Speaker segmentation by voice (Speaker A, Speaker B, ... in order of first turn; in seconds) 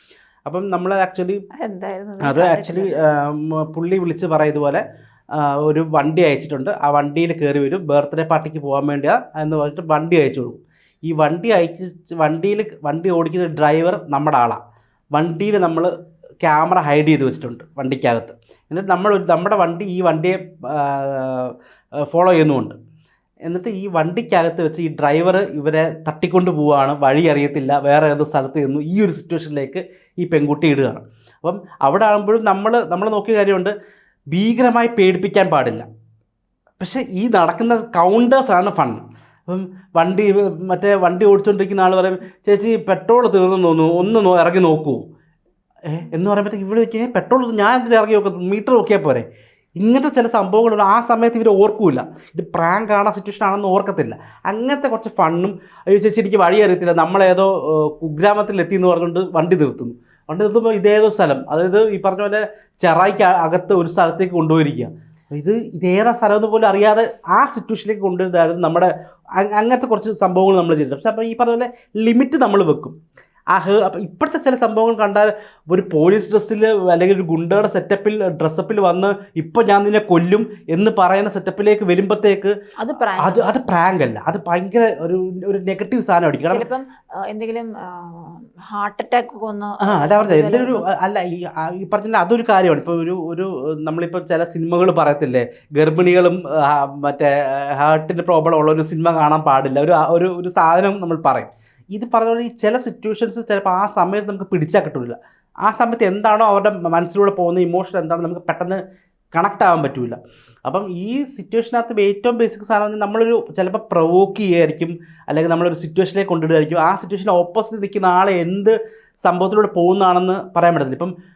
Speaker A: 0.5-1.4, 2.2-4.8, 5.3-14.6, 15.1-15.9, 16.4-21.5, 22.1-22.8, 23.5-33.7, 34.3-35.9, 36.8-45.1, 45.9-49.3, 49.8-73.0, 73.5-82.5, 83.2-86.7, 89.8-108.8, 109.3-121.1
Speaker B: 1.5-3.0, 82.8-83.5, 86.5-90.9